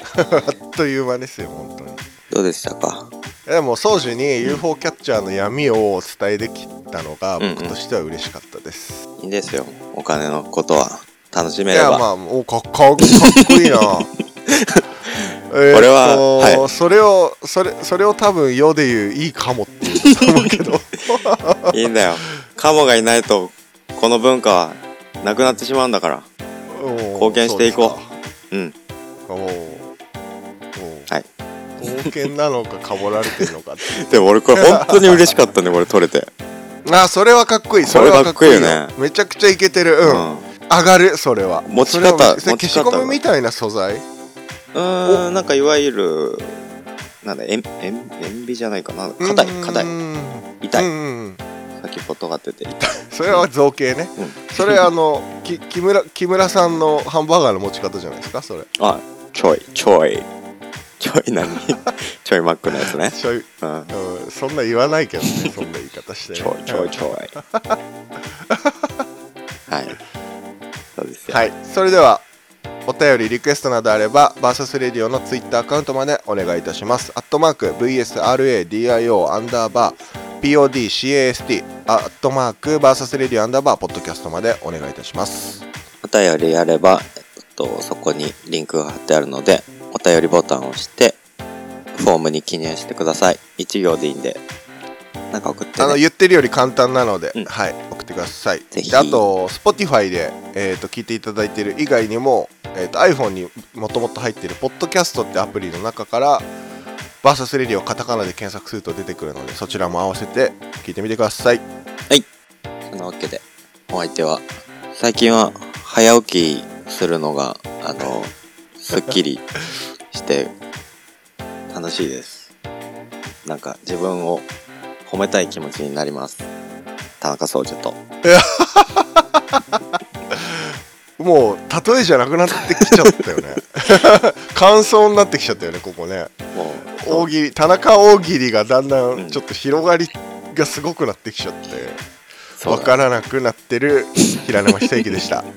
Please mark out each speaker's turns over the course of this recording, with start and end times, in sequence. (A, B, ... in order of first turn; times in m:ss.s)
0:00.1-0:02.0 A
0:02.3-0:03.1 B
0:03.4-0:09.0 A
0:07.4-0:07.8 B
0:09.2-0:12.0 B
0:11.7-0:14.1 A
0:13.0-0:13.4 B
0:14.5-0:14.8 B
0:15.5-0:21.8 A
0:15.7-0:16.7 B
0:21.7-0:26.3 B
0:26.7-0:28.1 A
0:27.1-0:28.0 B
0:29.3-0:29.9 A
0:30.8-0:31.1 A
0:31.8-0:35.3 A
0:33.3-0:36.3 B
0:36.8-0:44.0 A
0:37.8-0:38.9 B
0:40.0-0:40.5 B
0:41.6-0:43.2 B
0:44.7-0:46.6 B
0:47.2-0:49.9 B
0:49.2-0:51.4 A
0:50.6-0:50.9 B
0:51.8-0:53.5 B
0:52.8-0:58.7 A
0:54.2-0:54.9 B
0:58.8-1:00.3 B
1:01.0-1:03.9 B
1:02.7-1:07.8 A
1:05.3-1:05.6 B
1:06.3-1:07.3 B
1:08.5-1:08.9 A
1:09.7-1:10.0 B
1:11.0-1:11.4 B
1:11.3-1:12.2 A
1:12.8-1:25.6 A
1:26.0-1:31.2 B
1:31.9-1:34.4 B
1:35.3-1:36.0 B
1:35.8-1:46.5 A
1:38.7-1:39.2 B
1:47.2-1:51.6 A
1:52.9-1:59.5 B
2:00.1-2:00.5 B
2:01.7-2:02.5 B
2:03.4-2:04.5 B
2:05.0-2:06.5 B
2:07.2-2:08.0 B
2:08.2-2:09.7 A
2:10.3-2:16.3 A
2:16.5-2:17.3 B
2:16.9-2:22.0 A
2:19.1-2:19.4 B
2:22.6-2:23.0 B
2:22.6-2:25.4 A
2:24.3-2:25.2 B